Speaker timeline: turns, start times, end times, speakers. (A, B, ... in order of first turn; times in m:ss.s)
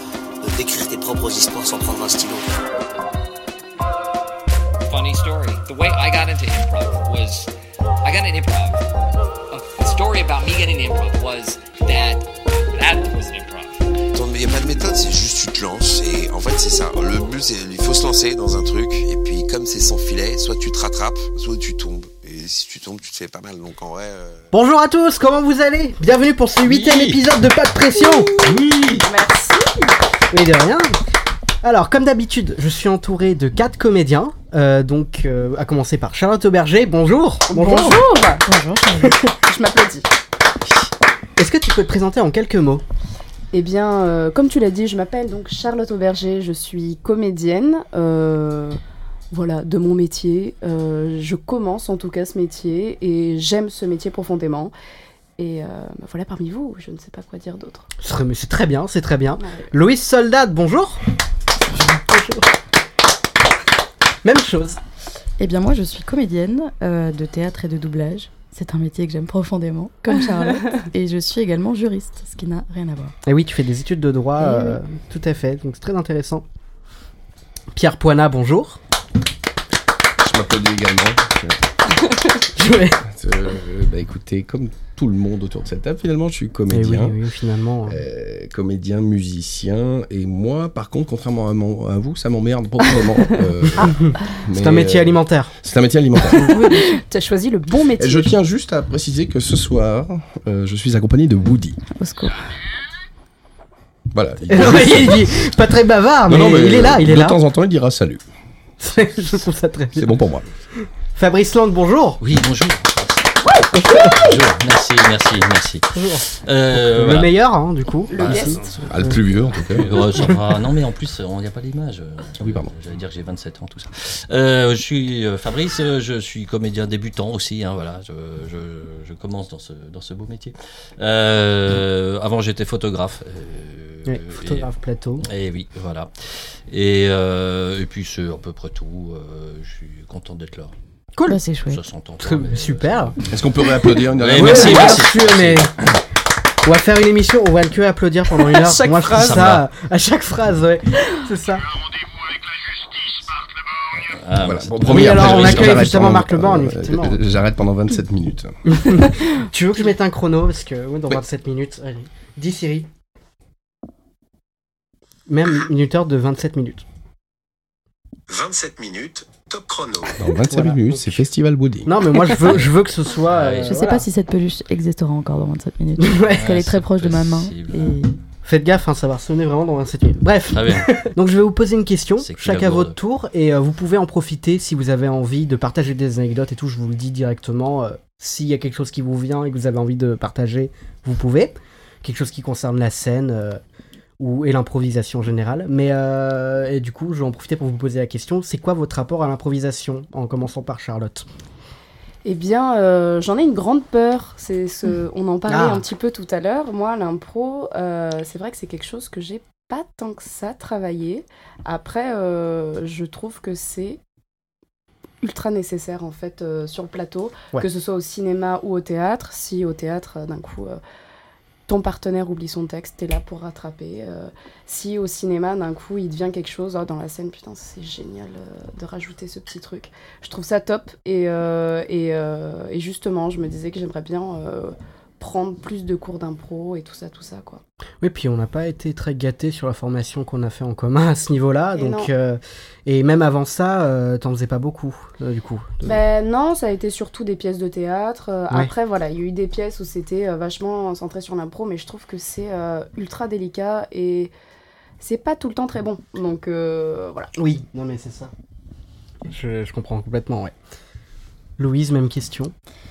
0:00.4-0:02.6 A
0:04.9-0:07.5 B
0:08.0-0:08.9 B
0:09.5-0:13.9 B
0:14.1-0:24.5 C
0:24.5-0:28.3 D
0:26.6-0:27.2 E
0:28.0-0:29.9 F
0:28.4-0:29.1 E
0:30.3-0:30.9 D
0:31.6-0:38.0 D
0:37.5-0:38.4 F
0:38.4-0:39.1 G
0:39.4-0:40.1 F
0:41.4-0:42.8 D
0:43.5-0:48.8 F
0:49.3-0:54.7 F
0:55.4-0:57.9 F
0:58.0-1:01.0 D
0:59.4-0:59.7 F
1:01.7-1:02.5 D
1:04.2-1:04.8 D
1:05.4-1:13.2 G
1:13.3-1:16.5 D
1:14.4-1:14.8 G
1:17.7-1:18.8 D
1:20.2-1:21.6 E
1:22.6-1:23.0 D
1:23.0-1:27.2 E
1:26.7-1:28.0 D
1:27.9-1:36.5 E
1:34.0-1:35.5 D
1:36.4-1:38.3 F
1:38.0-1:41.8 E
1:42.0-1:42.4 G
1:44.1-1:45.5 E
1:44.5-1:47.4 D
1:46.3-1:48.2 E
1:48.8-1:50.1 D
1:50.0-1:50.5 E
1:51.1-1:52.2 D
1:52.2-1:53.4 H
1:54.0-1:57.4 H
1:55.9-1:59.2 D
1:58.1-1:58.7 F
1:58.8-2:00.0 E
1:59.7-2:14.7 H
2:02.4-2:02.7 E
2:14.1-2:15.3 D
2:15.2-2:16.1 H
2:16.7-2:20.7 H
2:21.2-2:21.4 D
2:21.3-2:21.8 G
2:21.7-2:23.3 H
2:22.2-2:23.2 D
2:23.3-2:25.0 E
2:23.9-2:25.7 H
2:24.4-2:25.7 D
2:26.6-2:31.6 D
2:28.5-2:29.4 F
2:29.1-2:29.7 H
2:34.0-2:36.0 H
2:34.4-2:38.6 E
2:34.9-2:37.2 D
2:38.6-2:42.9 D
2:45.3-2:46.8 D
2:48.3-2:50.2 C
2:50.2-2:52.0 E
2:50.5-2:51.3 D
2:51.8-2:54.0 D
2:53.3-2:53.8 H
2:53.7-2:58.2 G
2:56.0-2:56.4 D
2:56.4-2:58.0 H
2:58.4-3:13.6 D
3:00.5-3:01.0 H
3:02.2-3:03.0 H
3:14.2-3:21.3 D
3:22.2-3:34.0 F
3:25.5-3:25.8 D
3:35.2-3:40.8 F
3:41.7-3:57.6 F
3:58.0-4:06.0 D
4:01.8-4:02.1 F
4:05.8-4:14.3 F
4:15.0-4:17.3 F
4:17.4-4:18.3 D
4:19.3-4:20.5 D
4:21.6-4:22.5 D